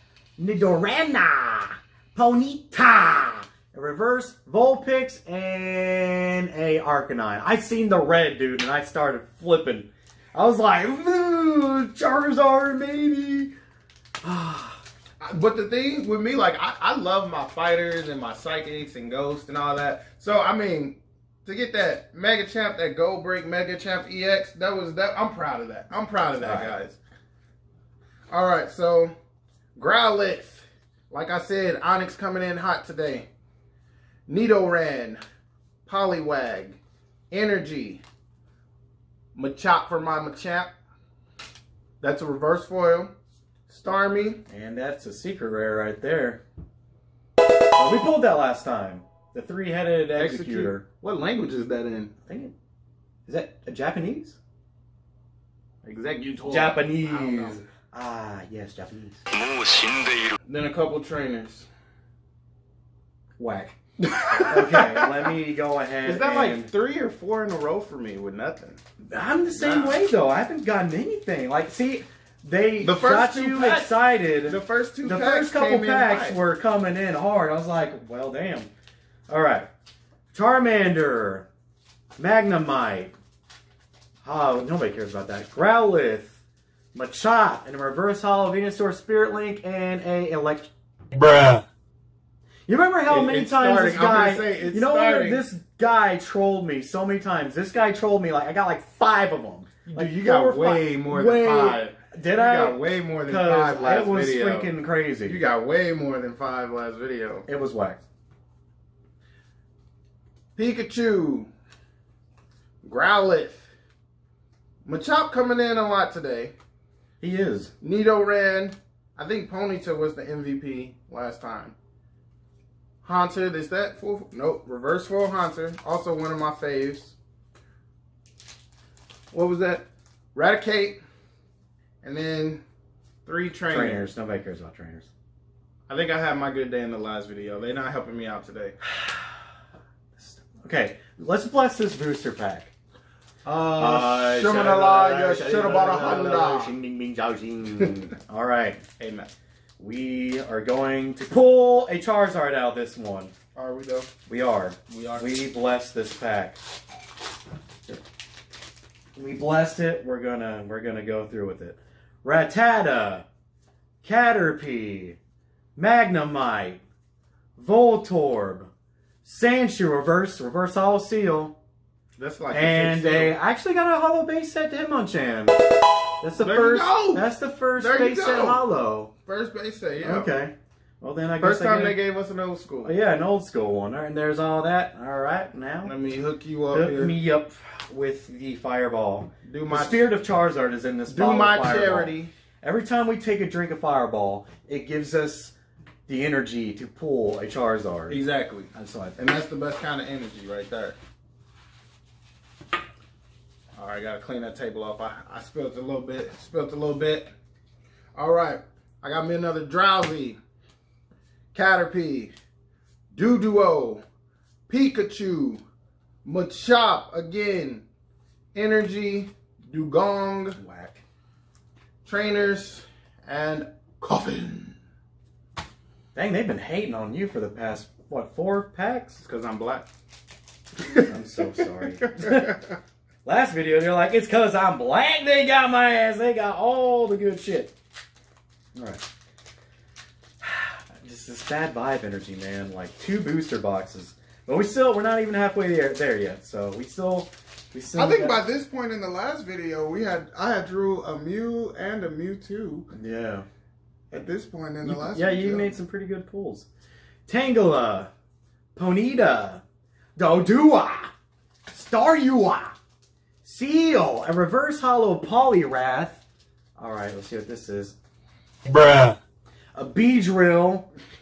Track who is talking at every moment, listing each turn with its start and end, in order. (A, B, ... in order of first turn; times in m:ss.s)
0:00.4-0:13.5 A
0:14.2-0:14.8 A
0:15.2-0:27.0 B
0:26.4-0:26.7 A
0:28.3-0:29.1 B
0:29.8-0:33.3 B
0:34.3-0:35.2 B
0:35.8-0:36.8 B
0:37.3-0:38.0 B
0:39.3-0:40.7 B
0:42.0-0:43.1 B
0:43.7-0:44.4 B
0:44.5-0:46.4 A
0:47.8-0:50.8 A
0:50.1-0:52.1 B
0:52.3-0:52.5 A
0:53.3-0:54.4 A
0:55.8-0:57.6 B
0:56.5-0:59.2 A
0:59.3-1:00.3 C
1:00.5-1:01.6 B
1:03.4-1:03.8 A
1:04.0-1:05.2 B
1:04.4-1:06.7 A
1:06.0-1:08.8 B
1:09.0-1:18.7 A
1:09.5-1:10.0 B
1:12.8-1:16.4 B
1:19.3-1:19.7 A
1:20.3-1:21.4 A
1:22.2-1:23.1 A
1:24.2-1:26.4 A
1:26.9-1:30.7 A
1:31.1-1:31.6 C
1:32.7-1:45.4 A
1:33.1-1:35.4 B
1:39.8-1:44.7 B
1:45.2-1:47.4 B
1:47.5-1:48.0 A
1:50.6-1:51.5 B
1:52.8-1:53.6 B
1:54.8-1:56.5 B
1:57.2-1:57.7 A
1:57.8-2:01.7 B
2:03.0-2:07.1 B
2:09.3-2:11.0 B
2:12.0-2:12.6 B
2:13.2-2:14.1 B
2:13.7-2:15.1 A
2:15.9-2:18.8 B
2:18.8-2:19.4 A
2:20.2-2:22.7 A
2:23.4-2:28.8 A
2:23.5-2:26.7 B
2:29.0-2:29.3 B
2:29.8-2:33.3 A
2:33.5-2:34.1 B
2:34.3-2:36.6 A
2:34.9-2:35.3 B
2:39.2-2:43.2 A
2:44.0-2:45.2 A
2:45.8-2:46.8 A
2:47.6-2:48.7 A
2:49.2-2:51.6 A
2:52.2-2:53.4 B
2:52.5-2:55.6 A
2:56.2-2:59.1 A
2:56.4-2:58.6 B
2:59.2-3:00.3 B
3:00.0-3:02.0 A
3:01.4-3:02.9 B
3:02.8-3:05.9 A
3:05.8-3:07.1 B
3:06.7-3:15.5 A
3:09.4-3:10.0 B
3:11.1-3:12.3 B
3:16.1-3:18.2 A
3:18.1-3:21.0 B
3:18.7-3:19.2 A
3:23.8-3:27.3 B
3:28.1-3:30.4 B
3:31.5-3:32.3 B
3:33.1-3:34.0 B
3:34.7-3:35.6 B
3:36.2-3:37.8 B
3:38.5-3:40.6 B
3:40.6-3:41.0 A
3:42.0-3:44.7 B
3:46.1-3:49.2 A
3:49.2-3:49.9 B
3:50.8-3:51.6 B
3:51.0-3:52.6 A
3:52.2-3:52.5 B
3:53.2-3:57.7 A
3:58.7-3:59.0 A
4:00.4-4:08.4 A
4:08.0-4:12.9 B
4:12.9-4:13.4 A
4:14.1-4:15.7 B
4:14.8-4:16.7 A
4:17.3-4:18.1 A
4:18.7-4:19.6 A
4:20.2-4:21.1 A
4:21.7-4:22.7 A
4:23.4-4:26.2 A
4:26.8-4:27.9 A
4:28.6-4:29.2 C
4:29.7-4:30.9 A